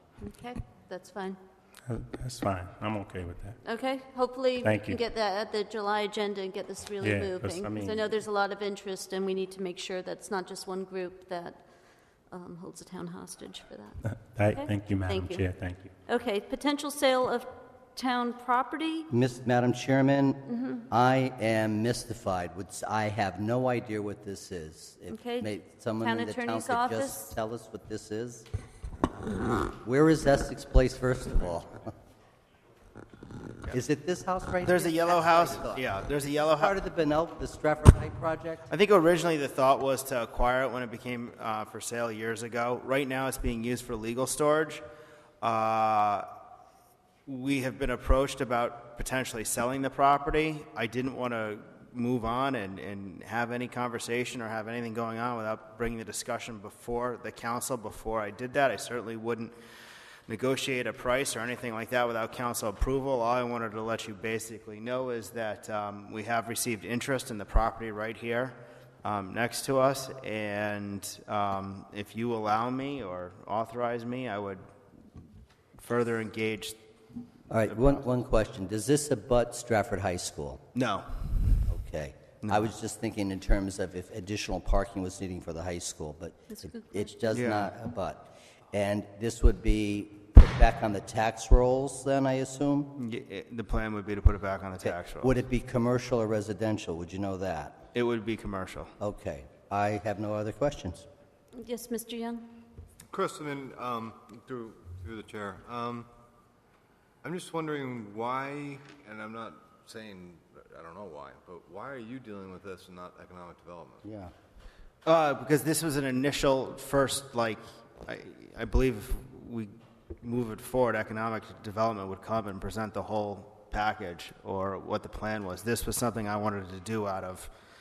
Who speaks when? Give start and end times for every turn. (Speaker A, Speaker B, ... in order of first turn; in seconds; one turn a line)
Speaker A: 0.2-1.4
Speaker B: 1.9-3.6
Speaker A: 3.6-11.6
Speaker B: 4.6-5.0
Speaker B: 7.0-8.0
Speaker A: 12.3-15.4
Speaker B: 14.1-15.9
Speaker A: 16.1-19.1
Speaker C: 19.1-28.5
Speaker A: 20.5-20.9
Speaker A: 25.1-27.3
Speaker C: 29.7-31.9
Speaker C: 33.7-35.8
Speaker D: 34.6-36.8
Speaker C: 36.6-38.7
Speaker D: 38.7-44.8
Speaker D: 45.4-46.3
Speaker D: 47.2-59.5
Speaker D: 60.3-74.6
Speaker D: 75.8-76.8
Speaker C: 77.5-80.6
Speaker D: 80.7-81.6
Speaker C: 81.7-92.9
Speaker D: 82.4-82.7
Speaker A: 86.5-87.4
Speaker D: 87.3-87.7
Speaker D: 93.0-95.4
Speaker C: 94.8-97.8
Speaker D: 97.9-98.9
Speaker C: 99.0-101.1
Speaker A: 101.5-102.5
Speaker E: 103.1-106.1
Speaker E: 107.2-114.0
Speaker C: 114.0-114.3
Speaker D: 115.0-119.7
Speaker D: 120.2-127.5